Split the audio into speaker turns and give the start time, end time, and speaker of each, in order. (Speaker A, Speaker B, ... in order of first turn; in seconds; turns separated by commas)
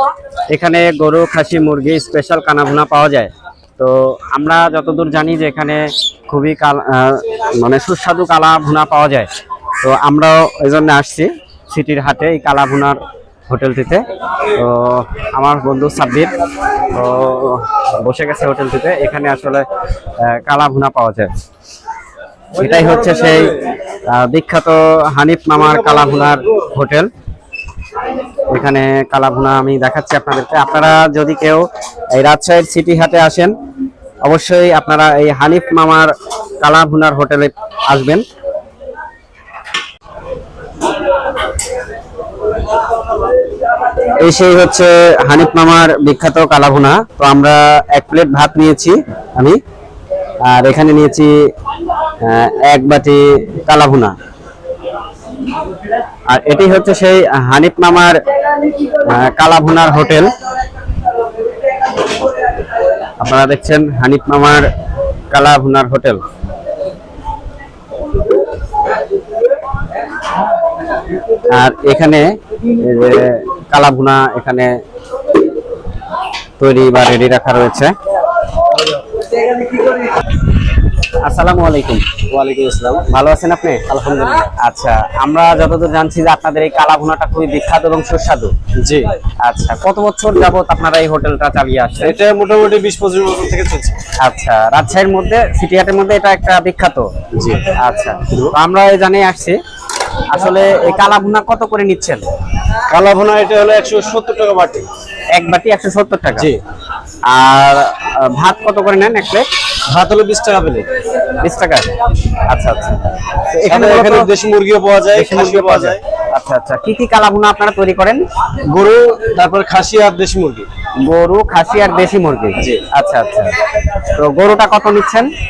Speaker A: 0.5-9.3, Speaker A: 9.8-16.3, Speaker A: 16.8-19.6, Speaker A: 20.2-21.3, Speaker A: 22.6-27.1, Speaker A: 28.5-33.5, Speaker A: 34.2-38.2, Speaker A: 44.2-49.6, Speaker A: 50.5-51.3, Speaker A: 52.2-54.1, Speaker A: 56.3-58.2, Speaker A: 58.9-60.3, Speaker A: 63.2-64.7, Speaker A: 65.3-66.2, Speaker A: 71.5-74.7, Speaker A: 76.6-77.9, Speaker A: 81.1-82.1, Speaker B: 82.3-83.1, Speaker A: 83.1-83.8, Speaker B: 83.9-84.5, Speaker A: 84.6-88.5, Speaker B: 88.8-89.1, Speaker A: 89.4-92.2, Speaker B: 92.0-94.0, Speaker A: 94.2-97.1, Speaker B: 97.3-97.7, Speaker A: 97.7-99.6, Speaker A: 100.3-102.2, Speaker B: 102.9-104.9, Speaker A: 105.3-106.5, Speaker A: 107.3-109.5, Speaker B: 109.9-110.9, Speaker A: 111.3-114.3, Speaker B: 113.6-116.0, Speaker A: 115.1-118.2, Speaker B: 118.7-120.7, Speaker A: 121.0-125.3